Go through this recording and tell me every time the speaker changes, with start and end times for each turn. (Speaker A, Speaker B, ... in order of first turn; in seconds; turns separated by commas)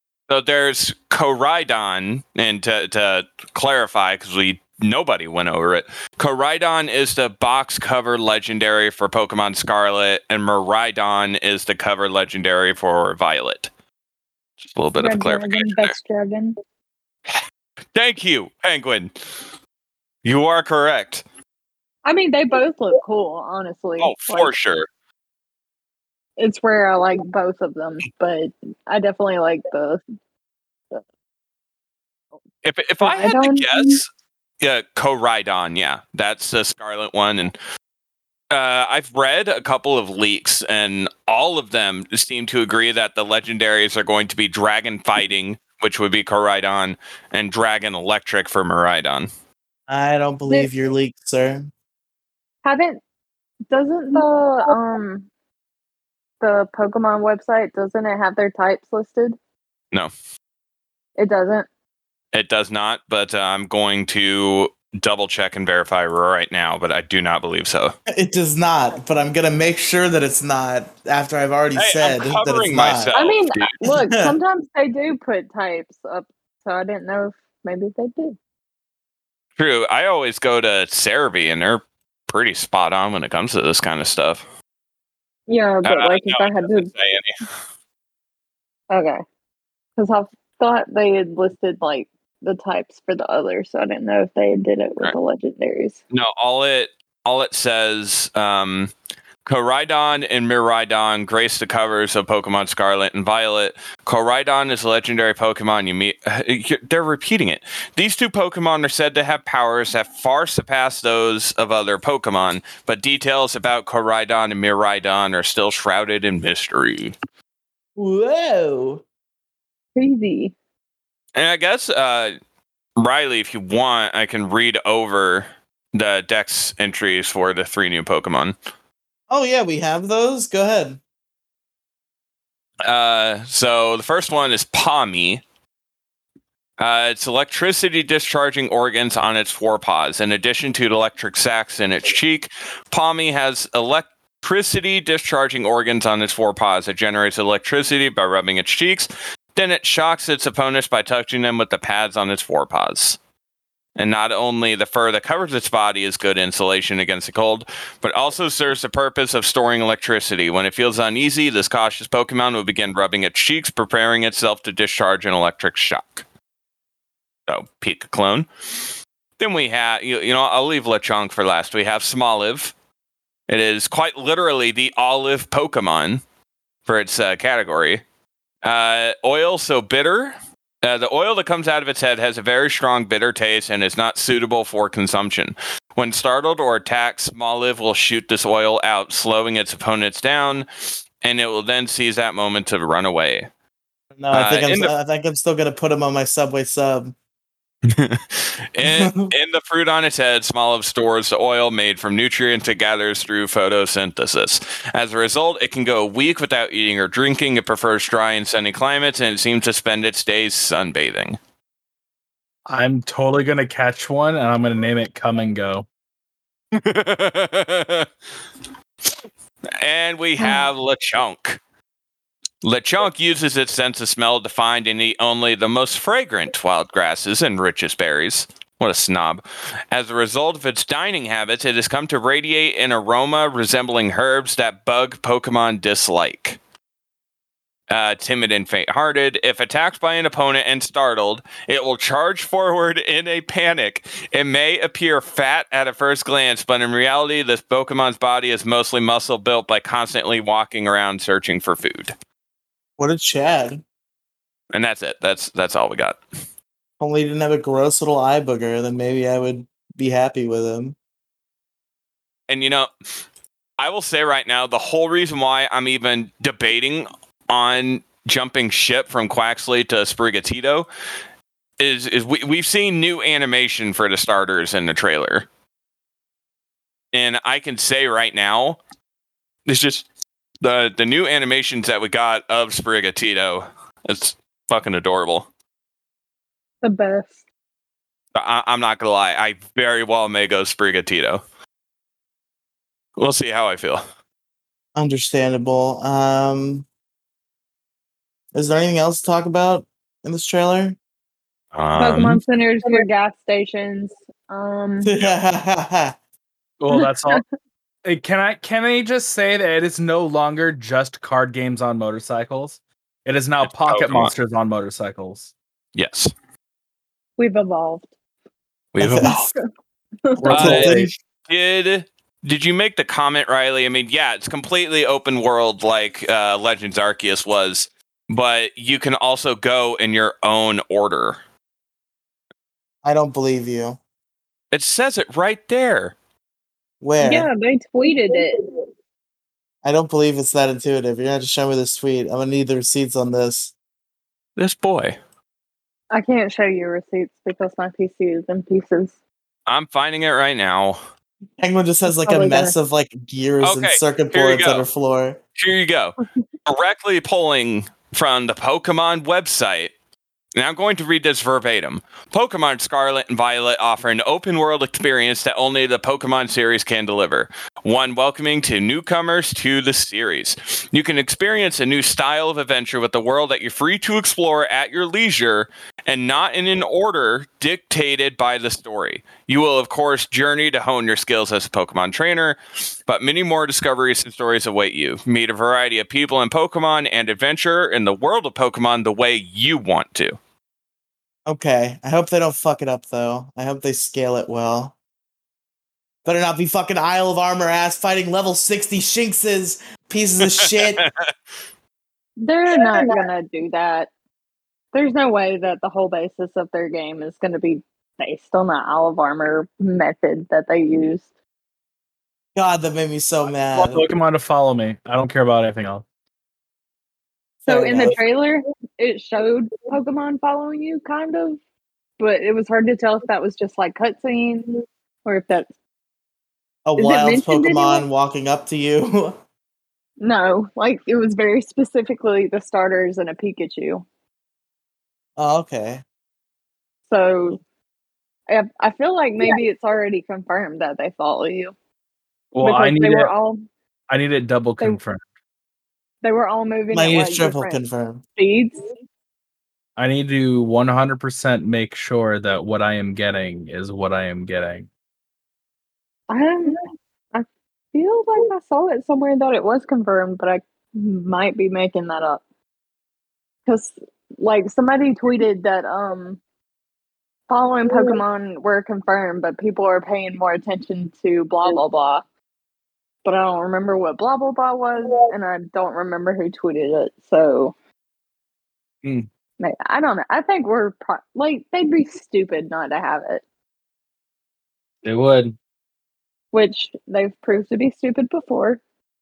Speaker A: 0.3-13.7, Speaker A: 14.6-15.9, Speaker B: 15.0-16.6, Speaker A: 17.9-19.1, Speaker A: 20.2-21.2, Speaker B: 22.0-24.5, Speaker A: 24.0-24.9, Speaker B: 26.4-30.0, Speaker A: 32.6-34.0, Speaker B: 33.0-34.0, Speaker A: 34.6-37.5, Speaker A: 38.5-49.3, Speaker C: 49.9-51.7, Speaker B: 52.6-53.0, Speaker B: 53.7-55.3, Speaker B: 56.4-59.4, Speaker B: 61.2-61.7, Speaker A: 62.3-67.9, Speaker C: 68.1-73.1, Speaker A: 71.8-73.7, Speaker B: 73.1-78.4, Speaker C: 73.8-74.3, Speaker A: 79.6-84.5, Speaker B: 85.5-86.9, Speaker A: 85.8-87.3, Speaker B: 88.9-89.2, Speaker B: 90.0-96.0, Speaker A: 96.1-98.9, Speaker A: 99.5-117.1, Speaker C: 118.0-119.0, Speaker B: 119.9-120.5, Speaker A: 121.3-122.3, Speaker A: 123.0-128.5, Speaker C: 129.3-131.0, Speaker A: 132.8-135.4, Speaker A: 136.8-153.2, Speaker A: 153.9-166.2, Speaker A: 167.5-168.5, Speaker A: 169.4-172.7, Speaker A: 173.5-176.2, Speaker A: 176.8-178.0, Speaker A: 178.6-190.7, Speaker A: 191.2-193.5, Speaker C: 194.2-197.1, Speaker A: 194.3-194.9, Speaker A: 197.8-211.4, Speaker C: 198.8-199.3, Speaker D: 212.7-215.8, Speaker A: 216.7-218.1, Speaker A: 219.8-221.6, Speaker B: 220.4-220.7, Speaker A: 222.6-236.6, Speaker A: 237.9-252.1, Speaker C: 253.0-253.8, Speaker A: 254.7-256.2, Speaker C: 257.0-260.9, Speaker A: 262.5-262.9, Speaker A: 263.8-270.9, Speaker A: 271.8-275.4, Speaker A: 277.1-278.8, Speaker A: 279.6-280.1, Speaker A: 280.6-285.5, Speaker B: 286.8-287.4, Speaker A: 288.3-291.4, Speaker A: 293.2-294.0, Speaker C: 294.9-296.9, Speaker C: 298.5-301.0, Speaker A: 301.7-302.4, Speaker B: 301.9-305.1, Speaker C: 305.0-306.1, Speaker D: 306.8-307.4, Speaker B: 306.9-307.4, Speaker D: 308.0-315.5, Speaker A: 313.6-314.3, Speaker A: 315.9-316.3, Speaker B: 317.4-318.1, Speaker A: 318.9-319.5, Speaker C: 319.0-319.4, Speaker B: 319.2-319.6, Speaker B: 320.3-320.7, Speaker C: 320.4-321.1, Speaker D: 320.4-321.0, Speaker A: 320.5-331.4, Speaker C: 333.0-334.0, Speaker A: 334.7-336.1, Speaker C: 337.0-337.5, Speaker B: 337.2-338.6, Speaker C: 339.8-343.7, Speaker A: 344.6-345.2, Speaker B: 346.1-349.1, Speaker A: 349.7-351.0, Speaker C: 351.6-355.4, Speaker B: 352.1-352.7, Speaker A: 353.6-354.8, Speaker A: 355.6-359.9, Speaker A: 360.5-390.4, Speaker C: 391.4-394.9, Speaker C: 396.2-401.0, Speaker A: 400.6-401.3, Speaker B: 402.4-404.1, Speaker B: 404.9-411.3, Speaker C: 412.5-414.1, Speaker D: 413.7-416.0, Speaker C: 417.6-418.2, Speaker B: 417.6-421.6, Speaker B: 422.2-425.7, Speaker C: 426.9-429.4, Speaker B: 427.0-428.1, Speaker B: 430.2-434.0, Speaker C: 435.4-436.0, Speaker B: 437.1-437.6, Speaker B: 438.5-441.7, Speaker D: 442.5-443.3, Speaker B: 442.6-443.6, Speaker D: 444.1-445.2, Speaker B: 446.2-447.8, Speaker C: 446.9-448.2, Speaker B: 448.4-448.8, Speaker D: 449.9-454.9, Speaker B: 456.3-462.4, Speaker B: 463.6-466.4, Speaker B: 467.5-472.2, Speaker B: 473.2-477.7, Speaker B: 479.6-483.4, Speaker D: 485.0-485.6, Speaker B: 486.5-488.8